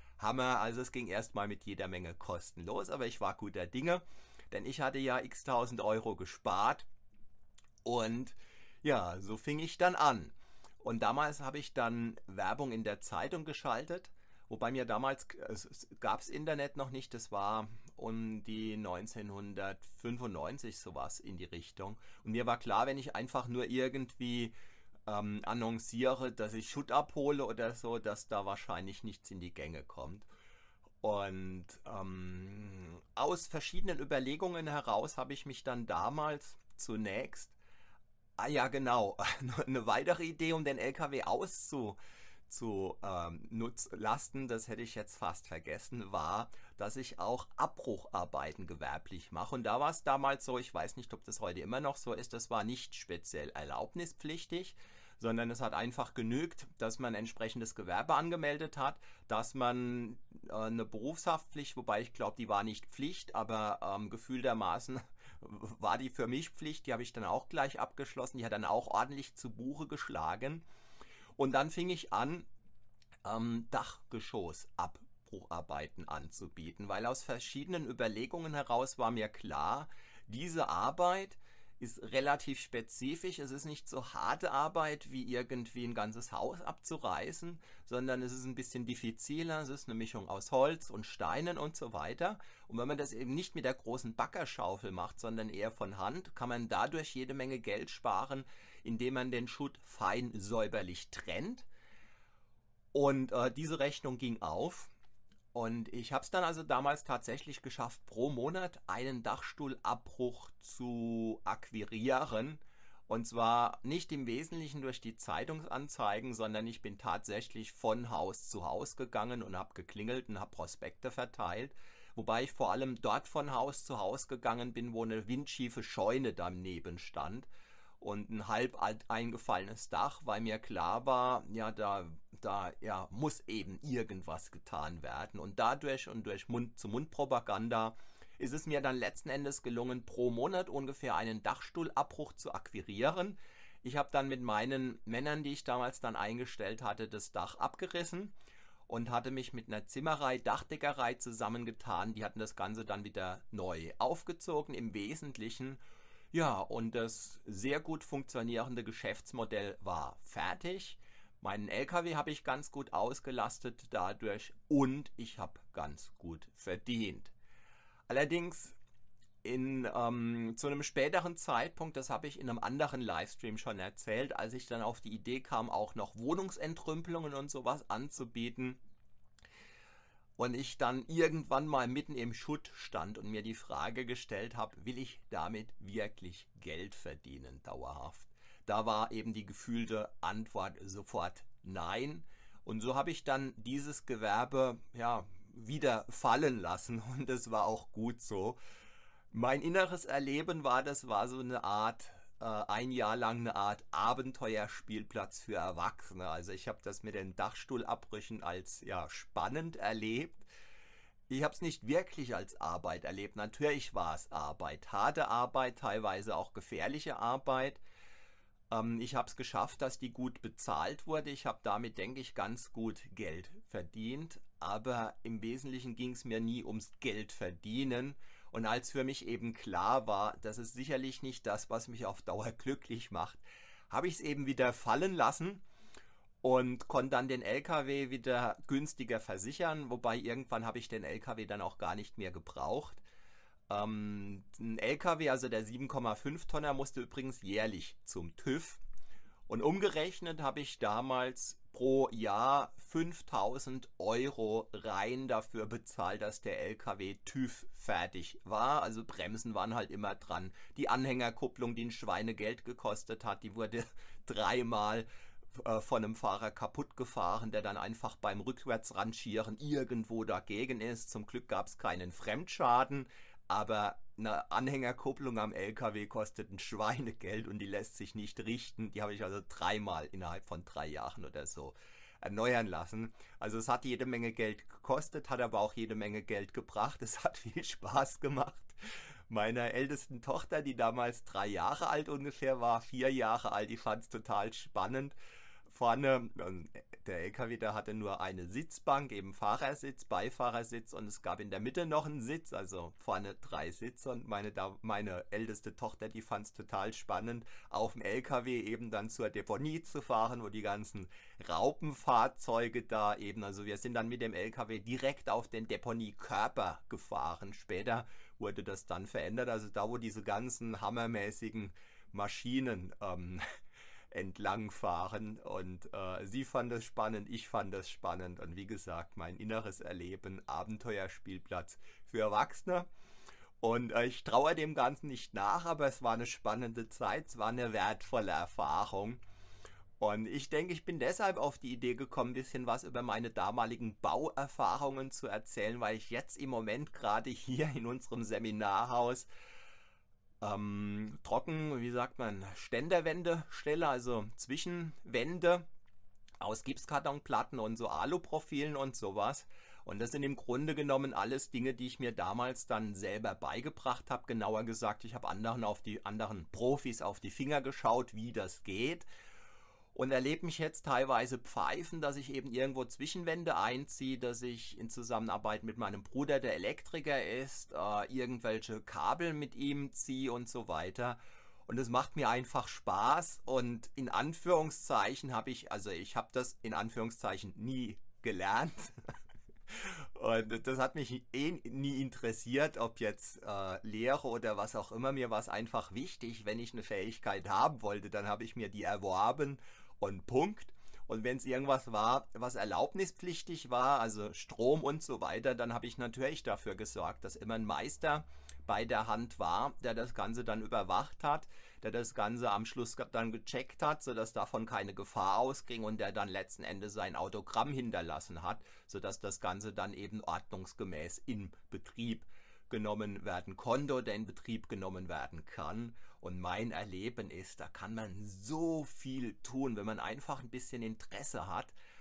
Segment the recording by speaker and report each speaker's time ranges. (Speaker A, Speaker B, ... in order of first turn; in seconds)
Speaker A: 0.2-6.9, 7.8-24.5, 25.1-30.3, 31.0-37.6, 38.4-70.6, 71.3-72.5, 73.2-101.7, 102.9-104.9, 105.5-127.5, 128.0-148.3, 148.9-155.8, 156.3-167.3, 168.1-168.8, 169.4-178.8, 180.4-198.6, 199.3-210.5, 211.3-217.8, 218.7-235.6, 236.4-243.0, 243.7-248.8, 249.5-323.4, 324.1-332.9, 333.6-339.2, 340.0-349.3, 350.4-355.6, 356.4-369.1, 369.9-388.9, 389.7-431.7